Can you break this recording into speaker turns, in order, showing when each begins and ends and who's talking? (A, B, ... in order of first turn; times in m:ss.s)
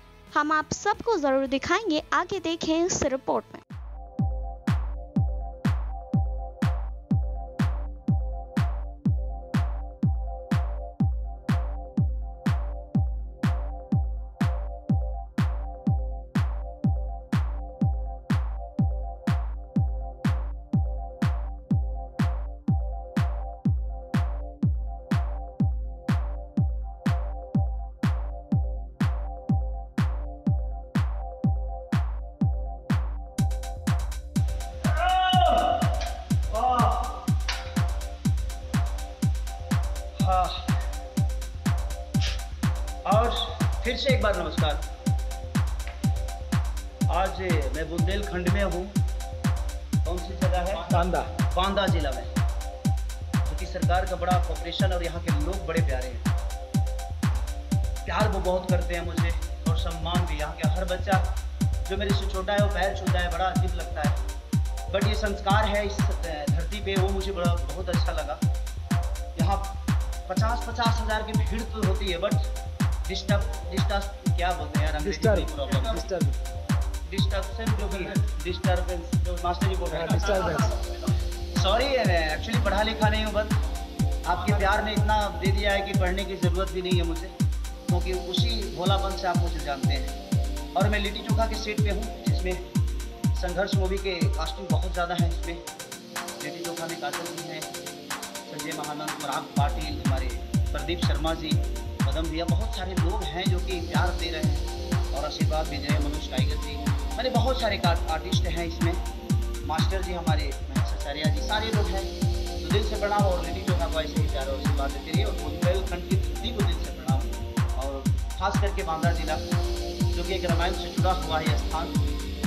0:00.3-0:03.6 A
0:34.8-0:35.9 B
0:36.5-0:37.2 B
0:40.2-0:40.8 B
0:43.0-0:44.8 B
0:47.1-0:49.0 B
0:50.0-0:52.3 B
0:50.9-0:51.3 C
0:53.4-0:56.3 B
0:58.0-1:01.2 B
1:01.8-1:04.2 B
1:04.9-1:08.4 B
1:09.4-1:12.5 B
1:13.1-1:16.0 B
1:15.0-1:16.4 C
1:17.1-1:23.6 B
1:19.9-1:20.7 C
1:24.2-1:27.3 B
1:27.9-1:30.2 B
1:30.8-1:32.6 B
1:33.4-1:35.6 B
1:36.4-1:37.7 B
1:38.5-1:49.0 B
1:49.6-1:59.4 B
2:00.1-2:02.0 B